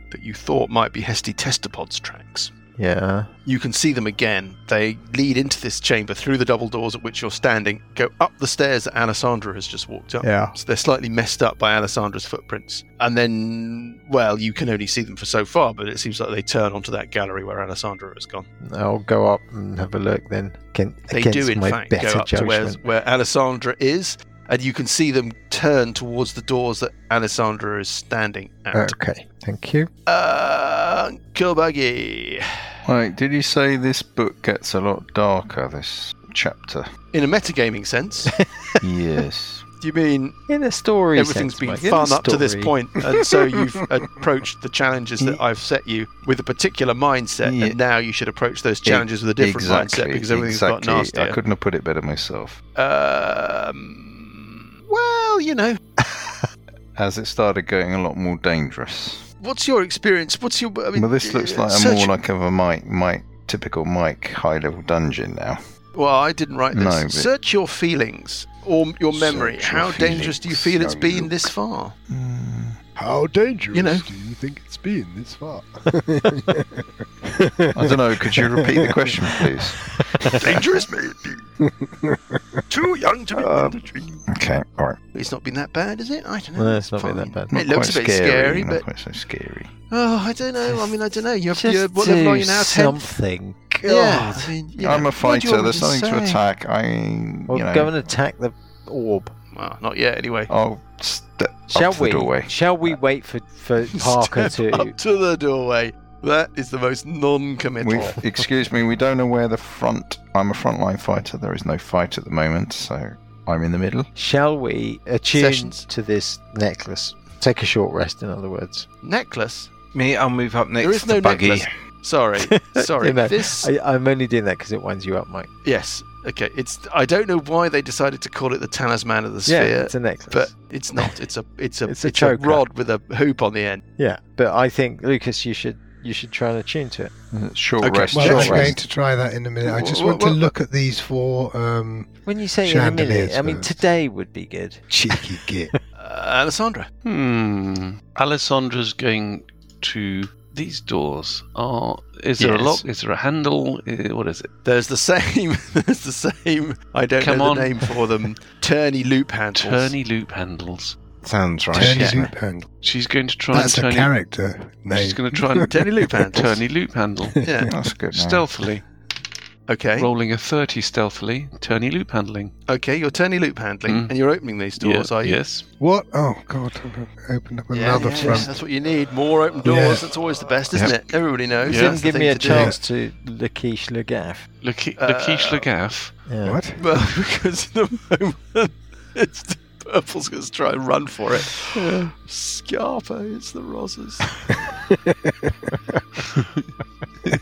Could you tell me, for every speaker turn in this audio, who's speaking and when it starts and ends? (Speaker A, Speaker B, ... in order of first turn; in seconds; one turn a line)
Speaker A: 0.1-2.5
Speaker B: 2.8-3.3
Speaker A: 3.5-18.4
Speaker B: 10.2-10.5
Speaker B: 18.6-22.8
Speaker A: 21.1-28.9
Speaker B: 28.7-29.9
Speaker A: 30.1-32.5
Speaker C: 32.9-36.9
Speaker A: 37.1-38.3
Speaker B: 38.3-38.8
Speaker C: 38.8-39.6
Speaker A: 39.8-40.4
Speaker B: 40.5-42.8
Speaker A: 41.1-51.4
Speaker C: 47.4-47.8
Speaker C: 48.8-52.6
Speaker A: 52.8-55.8
Speaker C: 57.0-59.2
Speaker A: 59.4-62.1
Speaker C: 60.9-65.6
Speaker A: 65.9-71.9
Speaker C: 66.7-67.3
Speaker D: 69.2-71.4
Speaker C: 69.8-70.1
Speaker C: 72.1-72.8
Speaker D: 73.0-78.9
Speaker A: 73.7-74.1
Speaker C: 77.7-79.8
Speaker A: 80.4-81.4
Speaker D: 81.6-82.6
Speaker A: 82.7-84.1
Speaker D: 83.3-83.8
Speaker C: 84.3-85.0
Speaker A: 85.1-88.8
Speaker B: 86.5-87.5
Speaker C: 87.5-89.7
Speaker A: 89.9-93.1
Speaker B: 91.5-94.5
Speaker A: 93.8-96.4
Speaker C: 94.8-98.0
Speaker B: 97.5-99.3
Speaker A: 99.5-100.5
Speaker C: 100.5-102.9
Speaker B: 101.7-104.9
Speaker A: 103.9-108.2
Speaker C: 107.8-114.1
Speaker B: 114.1-118.9
Speaker A: 115.3-115.8
Speaker A: 119.0-119.7
Speaker E: 119.9-121.7
Speaker A: 120.8-123.7
Speaker B: 122.4-125.5
Speaker A: 125.6-133.8
Speaker B: 129.4-131.1
Speaker B: 131.8-132.7
Speaker B: 134.0-137.1
Speaker C: 137.3-138.8
Speaker A: 137.9-138.5
Speaker D: 138.1-142.1
Speaker B: 138.1-138.8
Speaker A: 139.6-140.5
Speaker B: 142.2-145.4
Speaker D: 142.6-143.7
Speaker D: 144.9-145.7
Speaker A: 146.0-146.9
Speaker F: 147.0-154.5
Speaker A: 152.4-152.8
Speaker A: 154.6-159.9
Speaker F: 157.2-158.0
Speaker F: 159.6-160.9
Speaker E: 161.2-162.3
Speaker D: 161.7-162.7
Speaker F: 161.7-162.3
Speaker F: 162.8-164.1
Speaker D: 163.5-165.7
Speaker F: 164.9-167.4
Speaker A: 165.7-166.6
Speaker A: 167.4-167.7
Speaker C: 167.7-168.5
Speaker F: 168.1-168.8
Speaker A: 169.7-170.1
Speaker F: 170.0-172.5
Speaker A: 172.7-175.4
Speaker F: 173.8-174.1
Speaker F: 174.8-175.6
Speaker D: 175.8-178.5
Speaker A: 177.7-182.8
Speaker B: 178.1-178.5
Speaker D: 179.6-180.0
Speaker E: 180.7-181.0
Speaker F: 181.6-182.0
Speaker B: 181.7-184.5
Speaker D: 182.5-182.8
Speaker F: 184.6-186.1
Speaker A: 185.0-185.7
Speaker B: 186.3-186.6
Speaker D: 186.4-186.8
Speaker A: 186.8-194.3
Speaker F: 191.8-192.1